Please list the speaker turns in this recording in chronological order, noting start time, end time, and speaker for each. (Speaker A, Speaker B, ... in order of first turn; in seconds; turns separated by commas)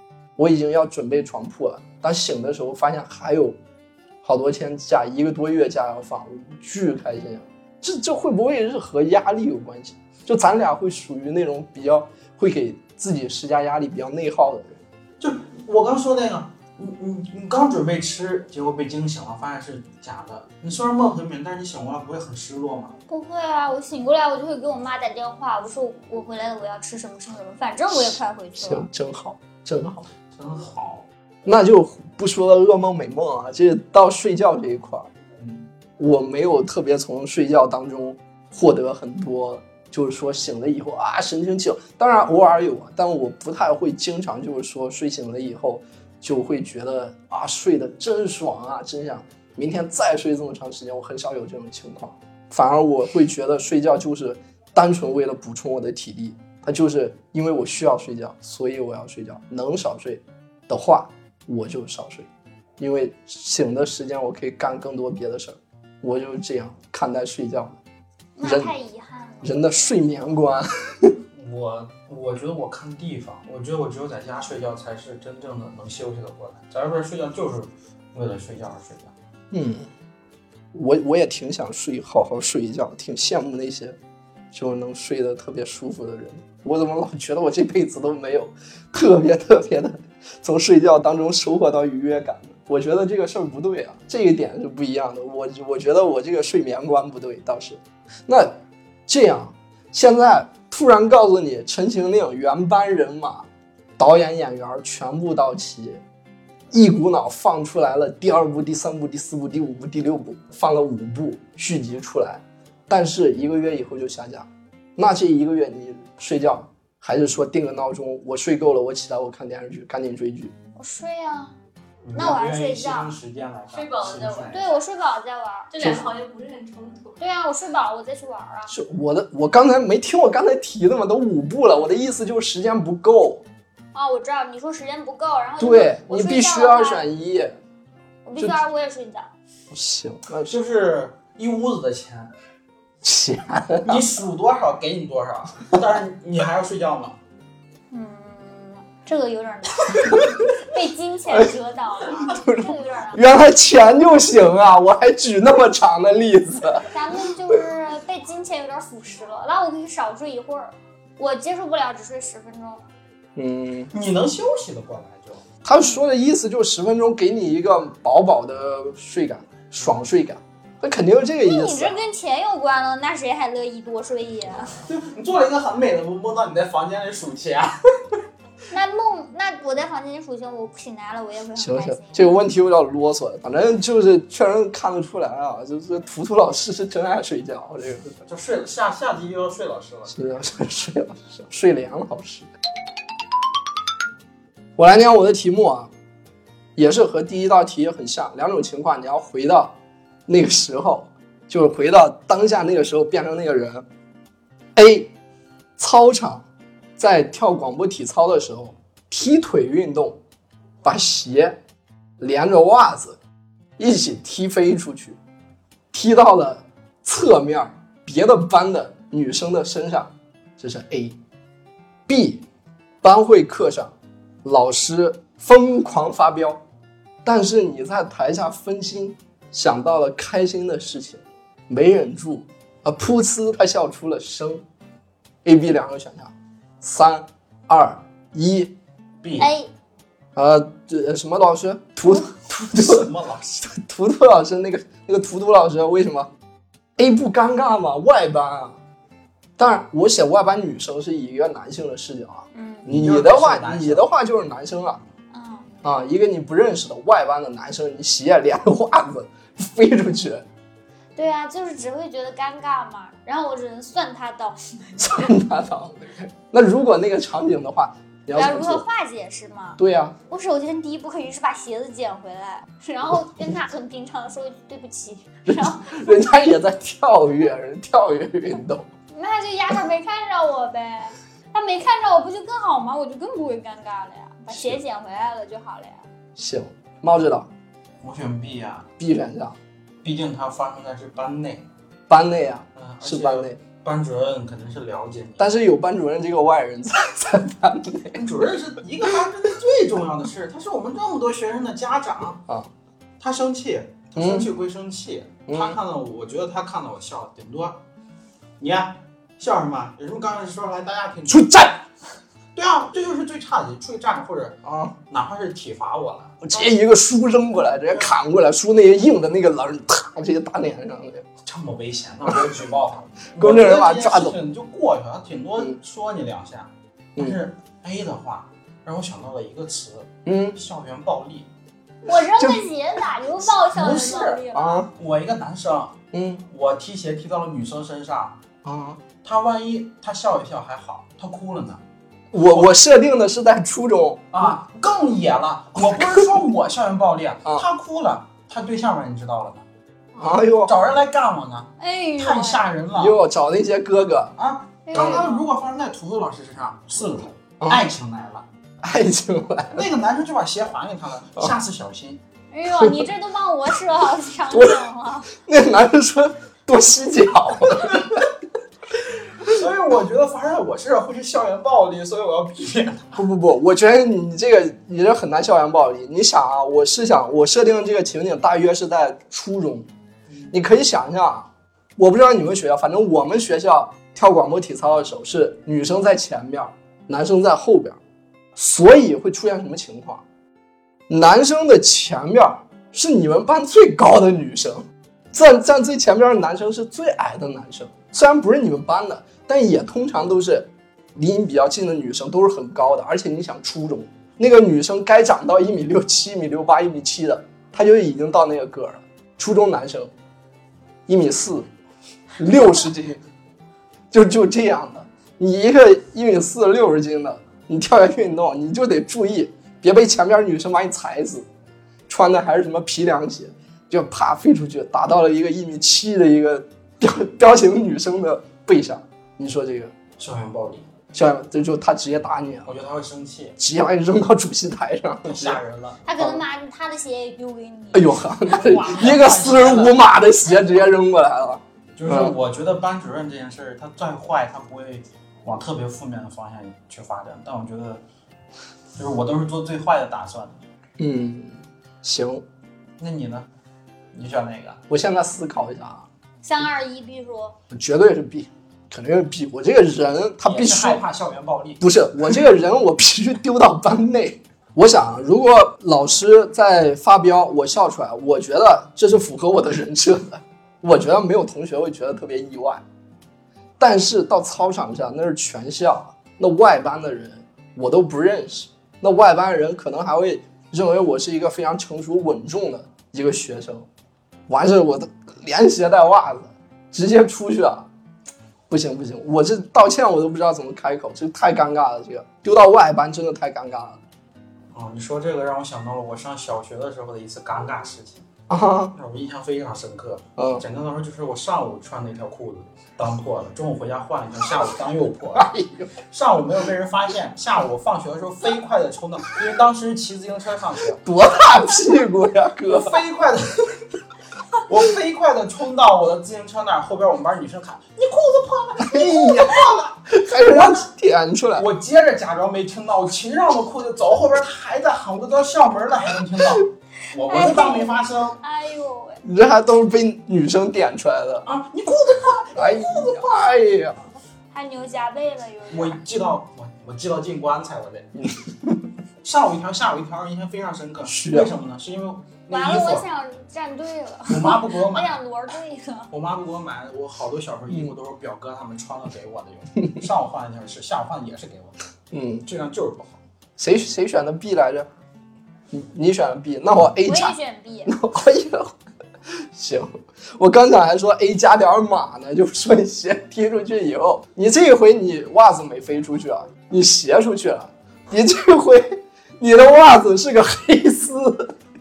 Speaker A: 0.4-3.6, Speaker A: 4.2-14.8, Speaker B: 15.2-22.9, Speaker C: 23.1-28.9, Speaker A: 27.9-30.1, Speaker B: 30.4-31.1, Speaker A: 31.4-35.1, Speaker B: 35.4-35.7, Speaker A: 36.0-67.8, Speaker C: 68.4-70.0, Speaker A: 68.4-68.7, Speaker A: 69.4-71.2, Speaker B: 71.3-79.1, Speaker A: 79.5-79.9, Speaker A: 80.7-84.0, Speaker A: 84.5-103.5, Speaker A: 104.0-106.0, Speaker A: 106.7-120.5, Speaker C: 120.8-121.5, Speaker B: 122.0-124.7, Speaker C: 122.1-123.2, Speaker D: 123.7-124.7, Speaker C: 124.5-125.7, Speaker D: 125.7-127.2, Speaker A: 125.8-126.1, Speaker C: 127.2-128.7, Speaker A: 128.7-133.4, Speaker C: 133.9-137.1, Speaker A: 135.6-137.6, Speaker C: 138.2-139.3, Speaker A: 139.7-140.6, Speaker B: 140.5-142.3, Speaker A: 143.0-144.1, Speaker B: 143.8-147.2, Speaker C: 147.9-153.2, Speaker A: 149.9-150.4, Speaker A: 152.1-156.9, Speaker C: 156.9-162.8, Speaker A: 163.4-163.9, Speaker B: 163.9-165.5, Speaker A: 165.6-172.0, Speaker C: 171.4-174.8, Speaker B: 174.8-177.8, Speaker C: 178.7-182.3, Speaker A: 181.6-188.2, Speaker B: 188.3-190.2, Speaker A: 190.1-192.5, Speaker A: 194.8-195.9, Speaker A: 196.8-199.7, Speaker A: 200.3-203.8, Speaker A: 204.8-205.1, Speaker A: 205.8-206.5, Speaker A: 207.0-210.2, Speaker A: 210.8-211.6, Speaker A: 212.2-213.2, Speaker A: 213.8-215.2, Speaker A: 215.9-221.2, Speaker A: 222.1-222.4, Speaker A: 223.0-226.6, Speaker A: 227.2-234.6, Speaker A: 235.4-238.7, Speaker B: 239.2-239.5, Speaker C: 239.4-239.7, Speaker A: 240.3-243.1, Speaker B: 242.3-243.7, Speaker A: 243.6-246.3, Speaker A: 247.0-248.8, Speaker A: 249.6-255.0, Speaker C: 252.5-252.9, Speaker B: 252.8-254.1, Speaker C: 255.3-255.7, Speaker A: 255.8-260.5, Speaker C: 261.2-265.1, Speaker A: 265.0-268.9, Speaker C: 268.3-276.5, Speaker A: 269.8-270.2, Speaker A: 275.5-278.9, Speaker C: 279.1-286.1, Speaker A: 284.5-284.8, Speaker A: 286.4-287.5, Speaker B: 288.0-288.9, Speaker A: 289.0-289.6, Speaker B: 290.0-291.7, Speaker A: 292.1-293.6, Speaker B: 292.8-295.5, Speaker A: 295.4-298.3, Speaker B: 298.1-302.4, Speaker B: 303.2-307.8, Speaker A: 304.2-304.5, Speaker A: 305.5-305.8, Speaker B: 308.6-311.6, Speaker A: 311.3-311.8, Speaker B: 312.6-314.6, Speaker A: 314.6-315.0, Speaker B: 315.1-316.7, Speaker A: 316.4-321.3, Speaker B: 317.7-318.2, Speaker B: 321.4-331.5, Speaker A: 323.4-324.4, Speaker A: 330.2-330.6, Speaker C: 332.0-334.9, Speaker A: 332.4-332.6, Speaker B: 333.5-338.4, Speaker A: 334.5-334.9, Speaker A: 336.1-336.4, Speaker A: 338.6-339.0, Speaker B: 339.2-341.8, Speaker A: 342.3-344.5, Speaker B: 342.4-342.8, Speaker B: 344.3-349.7, Speaker A: 345.8-346.2, Speaker A: 350.2-350.8, Speaker B: 350.6-353.2, Speaker C: 351.8-352.6, Speaker A: 352.9-354.3, Speaker B: 354.4-358.5, Speaker C: 354.9-355.4, Speaker A: 354.9-355.3, Speaker A: 358.8-359.9, Speaker B: 359.7-362.2, Speaker C: 362.5-365.3, Speaker A: 362.8-363.1, Speaker A: 364.5-368.2, Speaker B: 367.9-368.2, Speaker B: 369.4-373.2, Speaker A: 373.1-379.9, Speaker B: 380.3-380.5, Speaker A: 380.5-388.0, Speaker A: 388.6-390.2, Speaker A: 391.1-410.1, Speaker A: 411.1-411.7, Speaker A: 412.4-413.2, Speaker A: 414.1-421.5, Speaker A: 422.1-429.9, Speaker B: 430.2-430.9, Speaker A: 431.1-432.7, Speaker B: 432.7-433.6, Speaker A: 433.6-435.6, Speaker B: 435.3-436.0, Speaker C: 436.1-438.2, Speaker A: 436.2-436.4, Speaker A: 437.9-442.4, Speaker B: 438.4-440.0, Speaker B: 442.0-448.0, Speaker B: 449.0-450.6, Speaker A: 451.0-452.4, Speaker B: 453.0-453.5, Speaker B: 454.1-454.8, Speaker A: 454.9-456.1, Speaker C: 456.4-457.6, Speaker A: 457.7-461.0, Speaker B: 460.4-462.2, Speaker A: 461.8-472.8, Speaker A: 473.8-483.9, Speaker A: 484.5-487.9, Speaker A: 488.7-494.0, Speaker B: 494.7-498.3, Speaker A: 498.5-498.9, Speaker B: 498.9-505.5, Speaker A: 500.4-500.6, Speaker A: 505.3-506.0, Speaker B: 506.0-511.0, Speaker A: 511.0-513.0, Speaker B: 512.6-513.8, Speaker B: 514.6-520.9, Speaker A: 518.8-521.7, Speaker B: 521.6-528.4, Speaker C: 527.3-529.2, Speaker A: 529.2-531.5, Speaker B: 531.5-533.6, Speaker A: 532.5-534.1, Speaker C: 534.5-536.0, Speaker B: 535.7-538.1, Speaker A: 538.2-538.9, Speaker B: 539.2-543.0, Speaker A: 541.0-541.5, Speaker C: 542.5-546.1, Speaker B: 544.3-545.2, Speaker B: 546.1-551.8, Speaker A: 552.1-552.5, Speaker B: 552.5-553.2, Speaker A: 553.6-554.9, Speaker A: 555.7-558.8, Speaker C: 557.0-558.0, Speaker A: 559.5-571.5